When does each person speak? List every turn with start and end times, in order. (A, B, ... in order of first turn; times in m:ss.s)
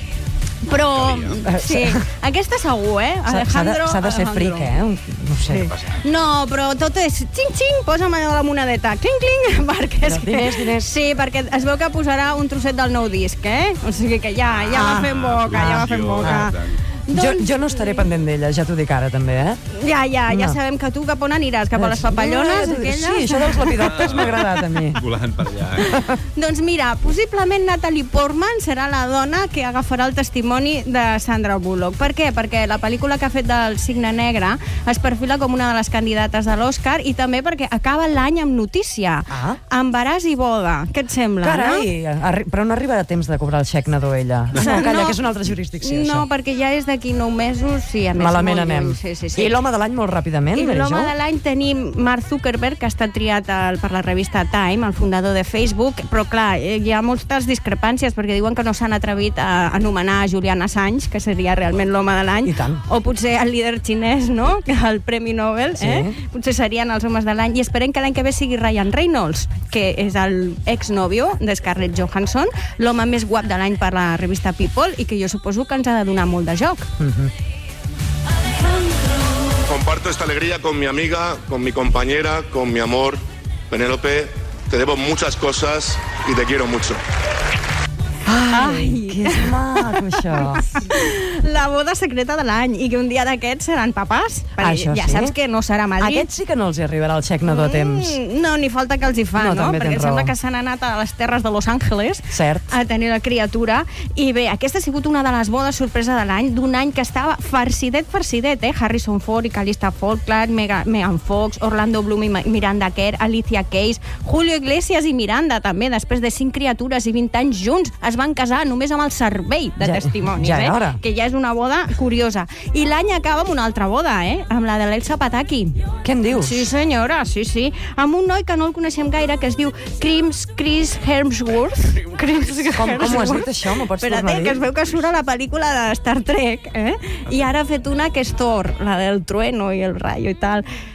0:00.6-0:04.7 A
0:00.7-0:01.4 B
0:01.5-0:02.0 C
0:03.3-0:05.7 C
0:05.6-0:06.0 B
0:05.9-0:18.1 A
0:10.0-0:10.9 C
0:14.6-0:16.8 B
0:14.7-0:15.0 C
0:15.6-0:16.5 C
0:17.1-0:19.6 C
0:19.7-0:24.5 A
0:20.3-0:20.6 C
0:21.7-0:25.0 C
0:23.7-0:26.0 B
0:25.9-0:41.8 A
0:39.3-0:39.6 C
0:41.4-0:46.2 C
0:44.5-0:45.2 A
0:45.8-0:49.6 A
0:48.2-0:51.1 C
0:50.5-1:16.9 A
1:02.4-1:02.8 C
1:05.8-1:06.2 C
1:17.0-1:17.3 C
1:19.6-1:27.0 D
1:28.2-1:30.7 C
1:28.5-1:36.3 A
1:34.6-1:35.3 C
1:36.0-1:38.2 C
1:37.4-2:05.8 A
1:39.4-1:40.3 C
1:42.3-1:42.6 C
1:59.8-2:01.0 C
2:06.0-2:06.7 C
2:06.3-2:20.6 A
2:12.8-2:14.6 C